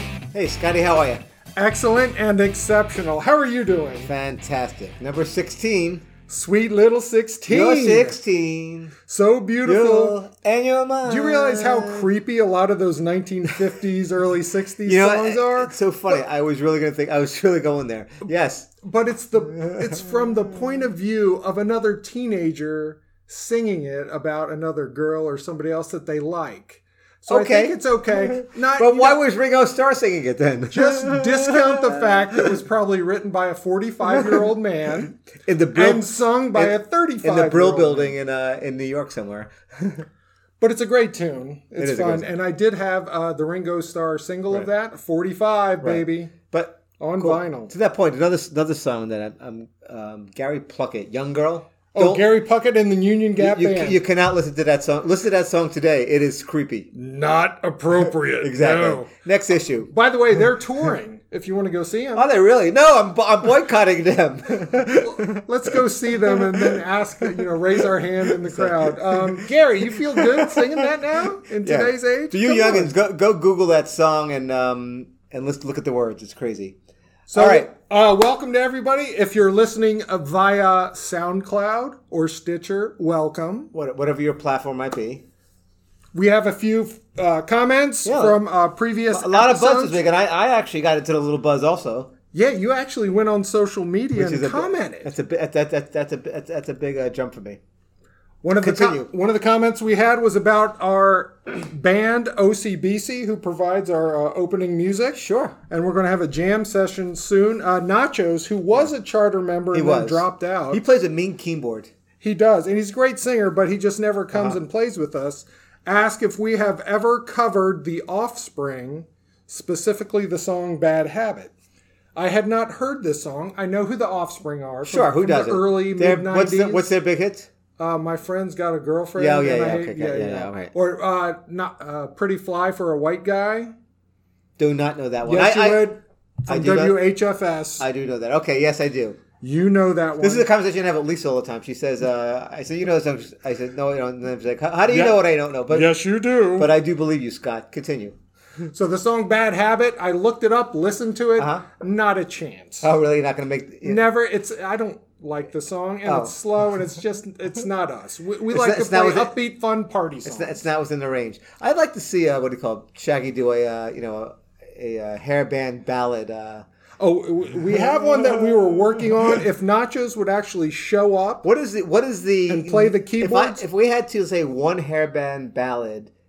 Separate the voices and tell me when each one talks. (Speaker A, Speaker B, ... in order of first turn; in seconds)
Speaker A: 0.3-1.2, 4.0-6.0, 7.5-8.9, 9.6-12.1, 14.8-18.7, 19.6-20.1, 27.3-32.2, 34.2-34.5, 35.5-40.0, 41.8-42.3, 45.8-52.2, 53.4-56.9, 58.4-59.9, 62.1-69.4, 70.0-70.9, 71.6-76.8, 77.3-77.7, 83.7-85.2, 88.0-88.4, 89.1-92.1, 94.2-97.6, 98.6-99.1, 105.2-105.6, 109.7-111.9, 114.3-114.6, 124.8-127.5, 129.2-130.7, 134.6-135.9, 136.5-137.0, 137.8-139.2, 140.2-146.0, 146.5-148.2, 151.4-151.6, 152.8-154.0, 156.1-156.3, 158.5-159.3, 160.2-166.6, 167.7-169.0, 171.4-176.1
Speaker B: 1.6-4.1, 6.3-8.2, 9.1-10.2, 11.0-15.8, 18.8-29.2, 30.7-35.1, 35.7-38.1, 40.6-46.3, 47.0-47.7, 51.9-54.0, 56.9-59.1, 59.9-62.3, 64.9-72.9, 77.3-83.7, 86.1-90.0, 92.3-95.1, 98.4-110.8, 112.2-121.5, 122.2-126.9, 127.8-133.7, 135.2-137.8, 139.4-140.5, 144.9-146.7, 148.7-152.9, 153.8-160.7, 167.0-171.5, 172.5-173.6